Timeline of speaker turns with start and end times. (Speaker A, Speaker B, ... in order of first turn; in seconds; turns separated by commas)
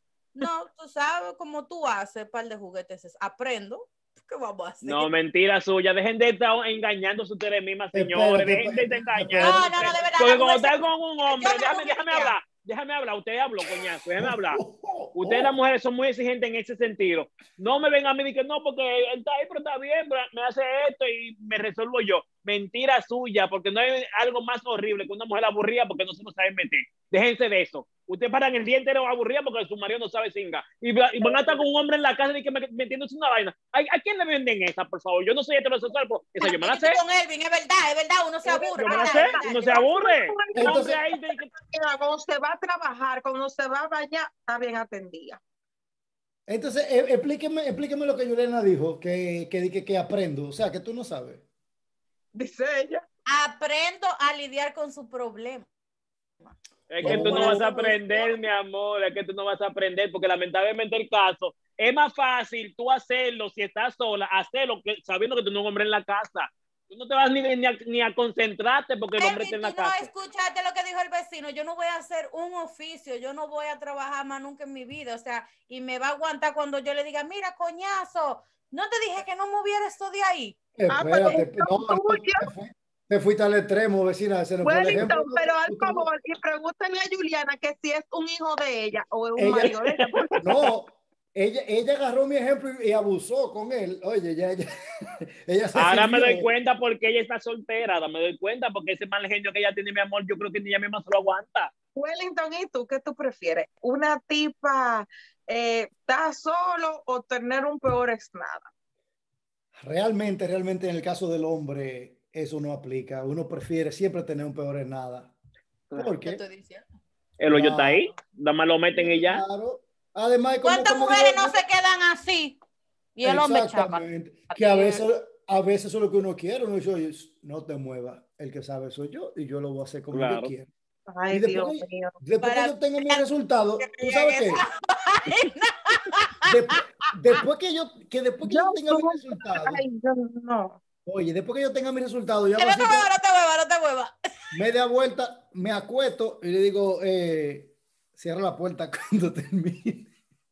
Speaker A: 0.3-5.1, Speaker B: 4.8-14.6, Speaker C: 7.9-9.9, Speaker A: 9.4-12.3, Speaker C: 14.2-15.5, Speaker B: 15.2-37.0, Speaker D: 31.2-31.6, Speaker A: 36.4-39.9, Speaker D: 38.4-45.4, Speaker B: 38.9-41.5, Speaker C: 40.5-41.0, Speaker C: 46.5-51.4, Speaker D: 52.3-53.0, Speaker A: 53.3-55.7, Speaker B: 56.9-70.1, Speaker C: 57.0-57.6, Speaker D: 57.0-58.3, Speaker A: 69.2-80.6, Speaker C: 80.7-86.1, Speaker D: 80.9-82.5, Speaker D: 84.6-90.6, Speaker C: 89.3-89.8, Speaker B: 89.7-90.7, Speaker C: 90.4-96.5, Speaker B: 95.7-101.7, Speaker D: 101.9-108.7, Speaker C: 109.8-115.3, Speaker C: 115.9-116.4, Speaker A: 116.2-116.8, Speaker B: 117.4-119.4, Speaker C: 117.5-118.1, Speaker C: 118.9-121.6, Speaker A: 120.6-122.6, Speaker A: 123.2-125.0, Speaker C: 123.2-130.7, Speaker B: 130.1-130.5, Speaker D: 131.1-132.2, Speaker C: 131.3-134.6, Speaker A: 132.4-133.2, Speaker A: 133.8-136.8, Speaker C: 136.4-139.8, Speaker D: 138.4-140.8, Speaker C: 141.0-143.1, Speaker A: 142.6-144.1, Speaker C: 144.5-150.1